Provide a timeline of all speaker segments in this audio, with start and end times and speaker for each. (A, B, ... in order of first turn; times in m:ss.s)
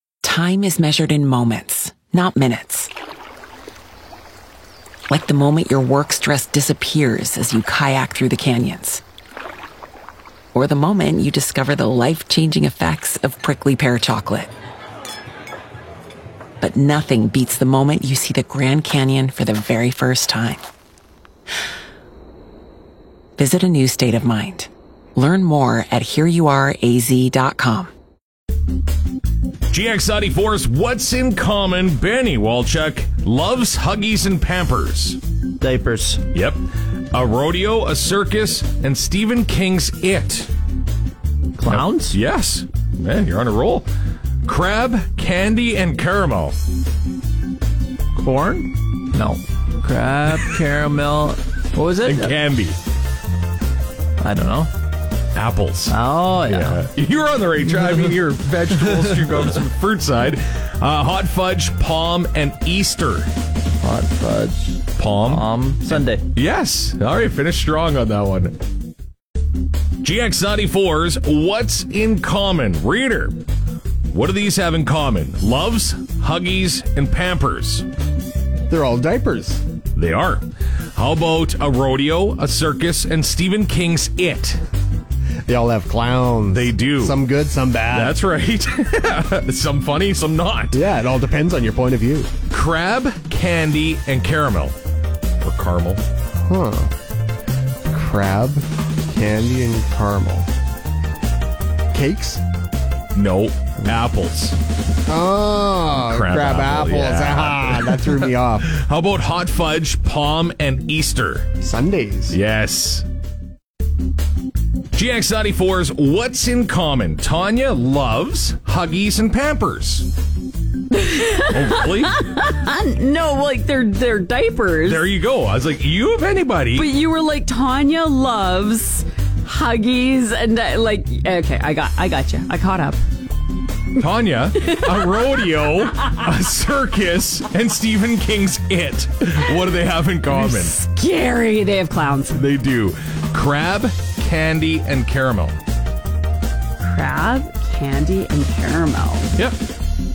0:00.2-0:02.9 A
0:05.1-0:09.0 A
0:10.5-0:14.5 A
0:16.6-0:20.6 A
0:23.4-0:27.9 A
0:29.7-0:35.2 B
0:35.6-0:36.2 C
0:36.3-0:36.6 B
0:37.1-0:40.5 B
0:41.6-0:42.2 C
0:41.7-0:43.9 B
0:44.4-0:46.6 B
0:48.2-0:52.3 C
0:52.0-0:52.8 B
0:54.2-0:54.7 C
0:55.4-1:03.3 B
0:55.9-0:56.8 C
1:03.8-1:06.2 C
1:05.0-1:05.5 B
1:06.3-1:08.6 B
1:10.0-1:13.4 B
1:14.1-1:17.9 B
1:18.7-1:19.6 D
1:20.0-1:24.6 B
1:25.5-1:28.2 D
1:26.5-1:27.2 B
1:27.9-1:30.8 B
1:30.7-1:32.3 D
1:32.5-1:34.8 B
1:35.4-1:36.0 B
1:36.5-1:36.9 D
1:37.9-1:40.5 D
1:41.9-1:42.4 D
1:43.2-1:44.6 B
1:45.1-1:48.7 D
1:46.0-1:51.5 B
1:51.6-1:52.4 D
1:52.3-1:53.1 B
1:54.9-2:00.1 B
2:00.9-2:05.1 E
2:01.5-2:02.2 B
2:04.8-2:06.9 B
2:06.7-2:13.0 E
2:14.0-2:20.8 B
2:14.6-2:15.8 E
2:20.3-2:22.4 E
2:22.3-2:25.6 B
2:26.8-2:29.3 E